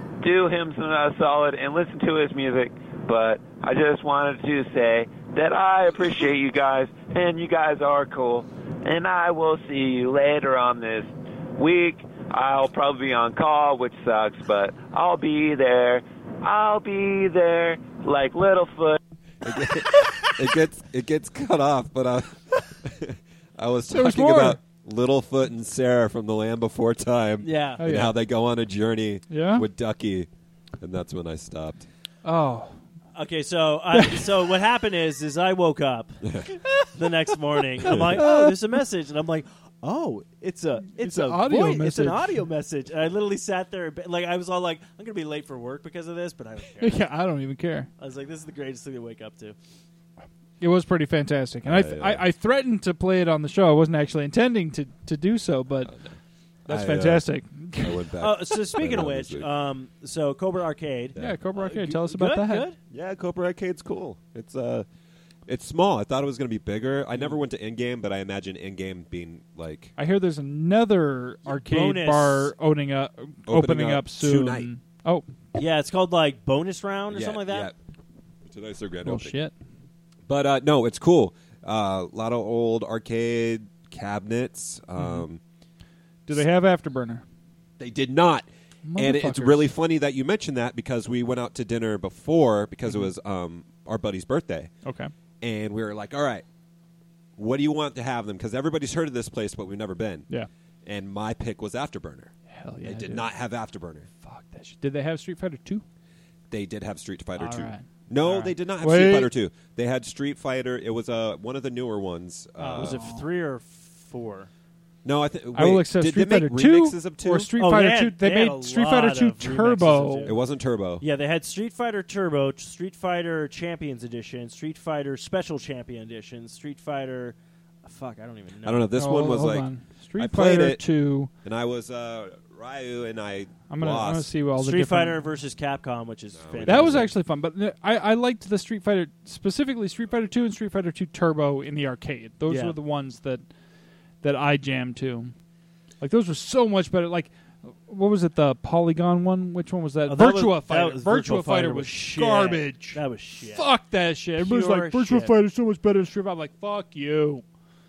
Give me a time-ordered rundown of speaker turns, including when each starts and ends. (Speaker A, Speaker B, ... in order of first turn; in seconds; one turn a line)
Speaker A: 0.2-19.0
Speaker B: 19.4-30.3
Speaker C: 23.9-24.6
Speaker D: 27.4-27.8
Speaker C: 27.8-28.1
Speaker C: 29.3-29.7
Speaker B: 30.8-31.9
Speaker C: 32.2-32.8
Speaker D: 33.1-36.3
Speaker C: 33.9-34.3
Speaker B: 36.2-36.5
Speaker D: 36.9-47.0
Speaker C: 37.8-38.6
Speaker B: 37.9-38.1
Speaker C: 41.0-42.4
Speaker C: 46.8-47.9
Speaker D: 48.0-49.5
Speaker C: 50.6-55.9
Speaker B: 51.6-52.3
Speaker B: 55.8-59.5
Speaker C: 56.7-58.1
Speaker D: 58.2-62.8
Speaker C: 61.2-62.7
Speaker B: 62.9-64.9
Speaker B: 65.5-69.9
Speaker C: 70.0-75.3
Speaker D: 71.5-72.5
Speaker B: 73.5-74.7
Speaker D: 75.5-77.7
Speaker B: 77.1-77.8
Speaker B: 78.4-79.4
Speaker C: 79.0-79.5
Speaker B: 80.3-85.4
Speaker C: 85.0-85.2
Speaker C: 86.2-87.2
Speaker B: 87.8-94.7
Speaker C: 88.8-89.7
Speaker C: 94.8-95.1
Speaker B: 95.4-96.4
Speaker B: 97.4-100.3
Speaker B: 100.8-104.1
Speaker C: 102.5-103.3
Speaker C: 104.2-105.8
Speaker B: 106.5-113.0
Speaker C: 107.4-109.3
Speaker C: 112.6-113.2
Speaker D: 112.7-114.5
Speaker B: 115.0-117.5
Speaker C: 115.5-120.3
Speaker D: 117.6-120.4
Speaker B: 120.2-121.0
Speaker D: 121.0-128.9
Speaker B: 128.6-130.9
Speaker C: 129.0-131.3
Speaker B: 131.4-134.3
Speaker C: 133.7-135.2
Speaker D: 134.6-137.1
Speaker B: 136.3-137.1
Speaker C: 136.6-143.4
Speaker D: 142.4-142.8
Speaker C: 144.2-145.3
Speaker C: 146.0-157.4
Speaker D: 150.1-153.7
Speaker D: 154.4-155.3